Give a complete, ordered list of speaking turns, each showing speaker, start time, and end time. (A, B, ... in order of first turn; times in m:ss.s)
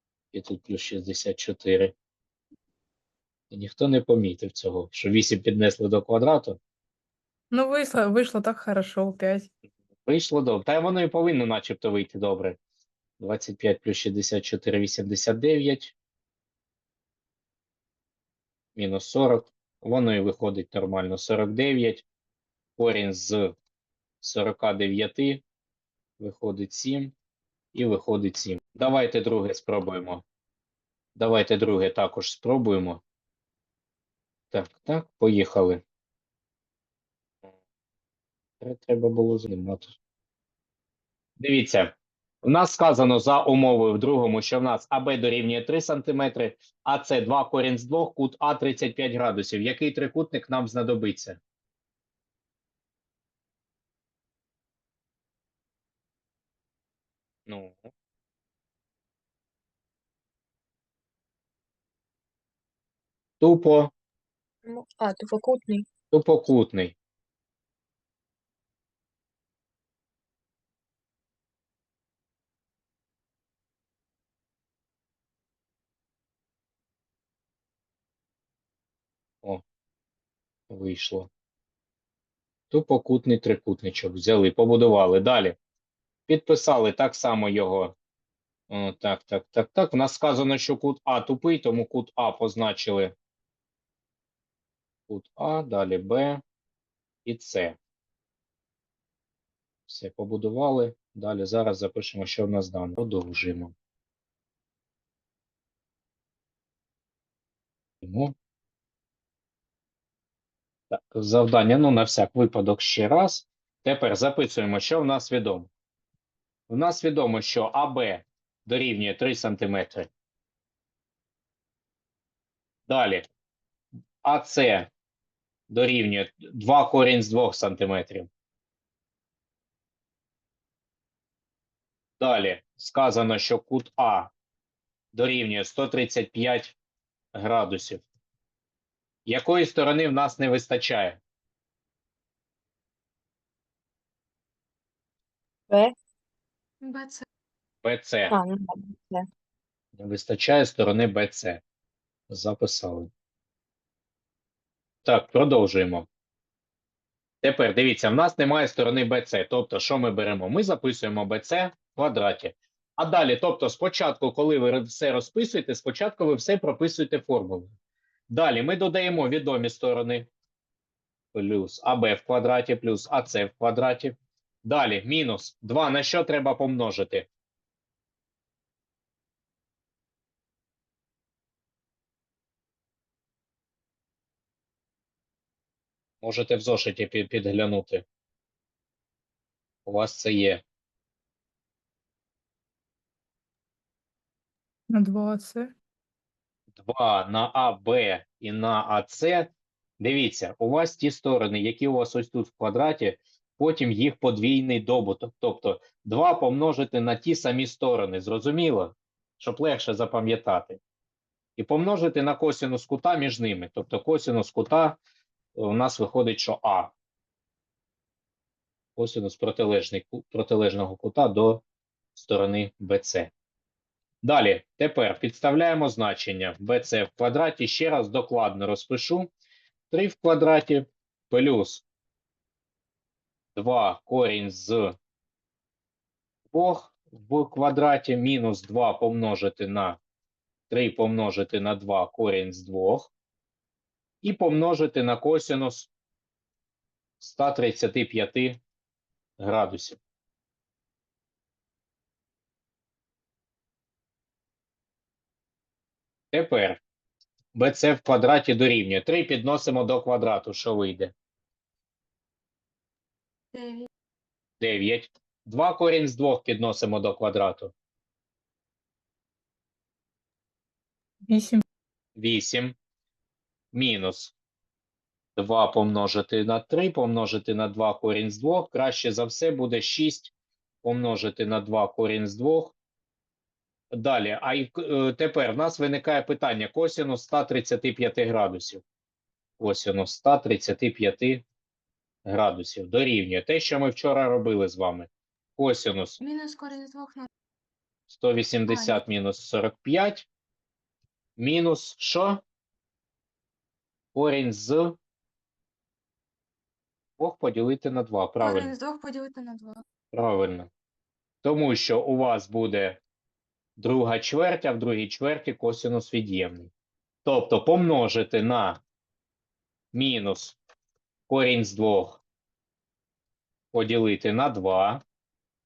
0:00.3-0:01.9 A
0:03.5-0:06.6 A
0:07.5-0:09.5 B
0:10.0-0:12.6 A
0:13.2-0:15.9 A
0:18.8-0:22.0 A
0:22.8-0:23.5 A
0:24.2-0:25.4 A
0:26.2-0:27.1 A
0:27.7-0:30.2 A
0:31.2-0:33.0 A
0:34.5-0:35.8 A
0:38.6-0:39.9 A
0:41.4-0:51.4 A
0:57.5-0:57.9 A
1:03.4-1:03.9 A
1:04.6-1:05.8 C
1:06.1-1:07.0 A
1:20.7-1:21.3 A
1:22.7-1:25.6 A
1:26.3-1:27.9 A
1:28.7-1:33.1 A
1:35.1-1:36.4 A
1:37.2-1:37.8 A
1:39.9-1:43.7 A
1:48.0-1:48.3 A
1:50.9-1:55.7 A
1:56.7-2:00.1 A
2:02.9-2:03.2 A
2:04.2-2:04.9 A
2:05.7-2:08.3 A
2:12.2-2:14.3 A
2:15.1-2:16.8 A
2:17.3-2:18.0 A
2:19.2-2:21.2 A
2:25.7-2:25.9 C
2:26.8-2:27.2 D
2:27.8-2:28.4 A
2:28.3-2:29.2 C
2:30.0-2:31.6 A
2:32.3-2:33.1 A
2:35.0-2:36.1 A
2:37.4-2:47.7 A
2:48.3-2:50.3 A
2:51.3-2:57.3 A
3:06.2-3:08.0 A
3:09.8-3:10.6 A
3:14.9-3:15.7 B
3:16.8-3:30.8 A
3:31.6-3:35.0 A
3:35.5-3:36.9 A
3:39.0-3:41.6 A
3:42.1-3:43.3 A
3:44.2-3:49.3 A
3:49.9-3:51.8 A
3:53.5-3:55.0 A
3:56.5-4:00.0 A
4:00.7-4:03.1 A
4:04.2-4:05.9 A
4:07.2-4:08.6 A
4:09.4-4:10.0 A
4:16.3-4:16.8 A
4:17.5-4:21.1 A
4:23.5-4:23.9 D
4:24.6-4:27.7 A
4:31.3-4:31.6 B
4:32.2-4:32.8 A
4:33.7-4:34.3 A
4:35.4-4:40.3 A
4:40.8-4:42.7 A
4:43.9-4:48.8 A
4:49.6-4:51.4 A
4:52.2-4:56.2 A
4:56.2-4:57.3 D
4:58.1-5:00.3 A
4:58.7-4:59.0 D
5:01.4-5:02.4 A
5:04.1-5:05.0 A
5:07.2-5:08.7 A
5:08.4-5:09.8 D
5:10.1-5:10.7 A
5:11.4-5:13.0 A
5:13.8-5:16.7 A
5:17.2-5:18.8 A
5:19.9-5:20.6 A
5:21.3-5:22.2 A
5:23.7-5:25.0 A